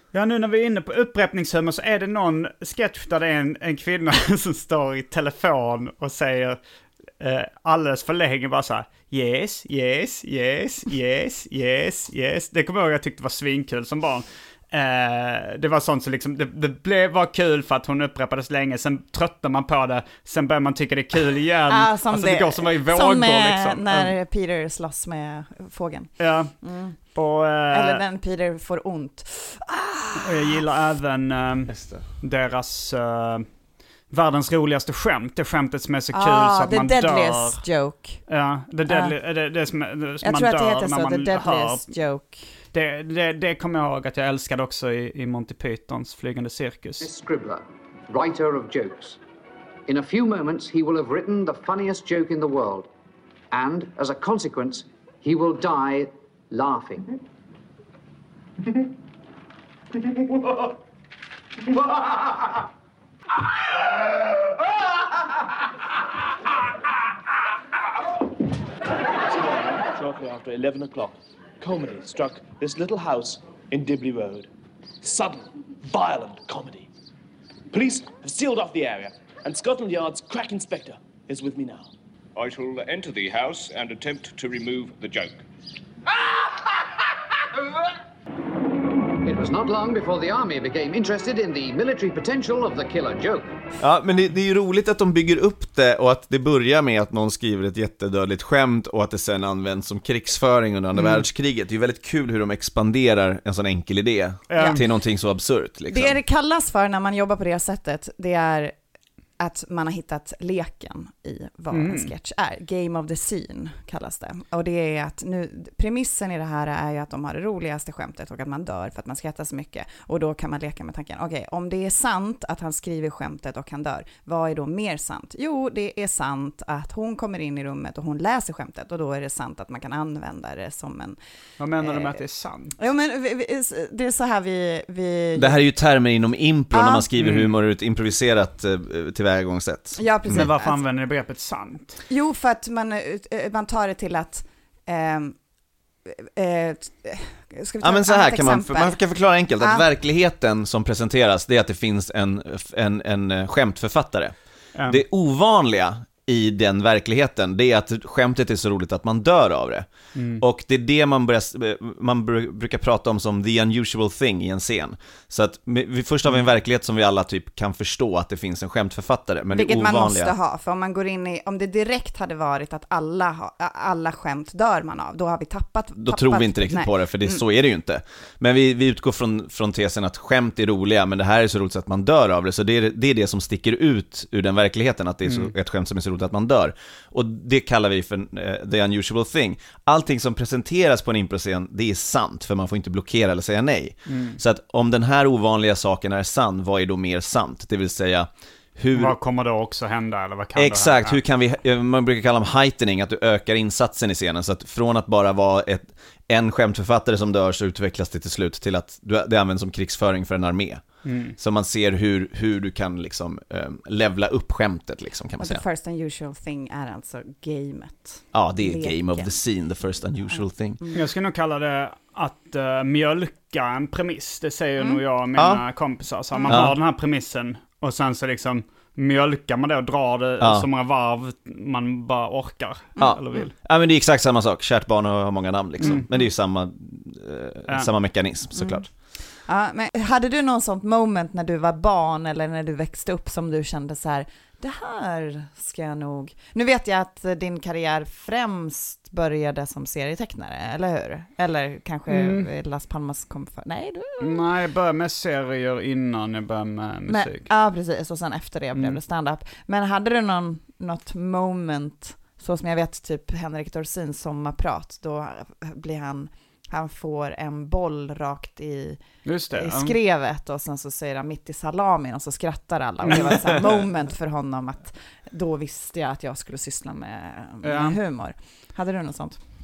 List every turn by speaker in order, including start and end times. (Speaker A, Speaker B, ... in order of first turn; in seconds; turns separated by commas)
Speaker A: 0.1-6.6, Speaker A: 7.2-24.1, Speaker B: 21.7-27.0, Speaker A: 26.2-26.5, Speaker A: 27.1-28.0, Speaker B: 27.7-30.5, Speaker A: 30.2-33.5, Speaker C: 31.7-32.0, Speaker A: 34.1-37.6, Speaker B: 36.1-38.2, Speaker A: 38.3-41.9, Speaker B: 38.9-39.1, Speaker B: 40.2-42.5, Speaker A: 42.7-47.1, Speaker D: 47.0-49.2, Speaker D: 49.9-52.9, Speaker D: 53.5-57.2, Speaker E: 69.3-74.5, Speaker E: 75.0-76.9, Speaker E: 77.7-81.9, Speaker F: 82.3-85.4, Speaker D: 89.2-93.5, Speaker C: 93.8-106.2, Speaker A: 104.5-104.8, Speaker B: 104.5-104.8, Speaker B: 105.9-108.7, Speaker B: 109.4-131.2, Speaker A: 111.7-112.1, Speaker A: 131.6-132.7, Speaker B: 131.8-132.2, Speaker B: 132.8-135.6, Speaker C: 135.3-140.5, Speaker B: 136.7-137.1, Speaker A: 137.2-137.5, Speaker B: 140.0-140.8, Speaker A: 140.3-142.0, Speaker B: 142.1-145.4, Speaker B: 146.1-149.0, Speaker C: 147.8-170.3, Speaker B: 149.6-149.8, Speaker A: 154.7-155.0, Speaker A: 160.1-160.4, Speaker B: 169.5-177.4, Speaker C: 176.0-199.2, Speaker A: 185.2-185.5, Speaker A: 194.1-194.4, Speaker A: 198.9-201.2, Speaker C: 200.6-215.6, Speaker A: 211.0-211.3, Speaker B: 215.4-219.3, Speaker C: 218.3-220.8, Speaker B: 220.3-221.1, Speaker A: 220.9-233.5, Speaker C: 225.3-225.6, Speaker B: 226.3-226.7, Speaker C: 226.4-226.7, Speaker C: 230.4-230.7, Speaker B: 232.9-233.4, Speaker C: 233.0-238.9, Speaker A: 235.8-236.1, Speaker B: 238.5-254.4, Speaker A: 252.1-252.5, Speaker A: 254.2-257.5, Speaker B: 257.1-269.0, Speaker A: 258.7-259.0, Speaker A: 269.2-270.0, Speaker B: 269.5-279.4, Speaker A: 273.0-273.5, Speaker A: 277.6-278.0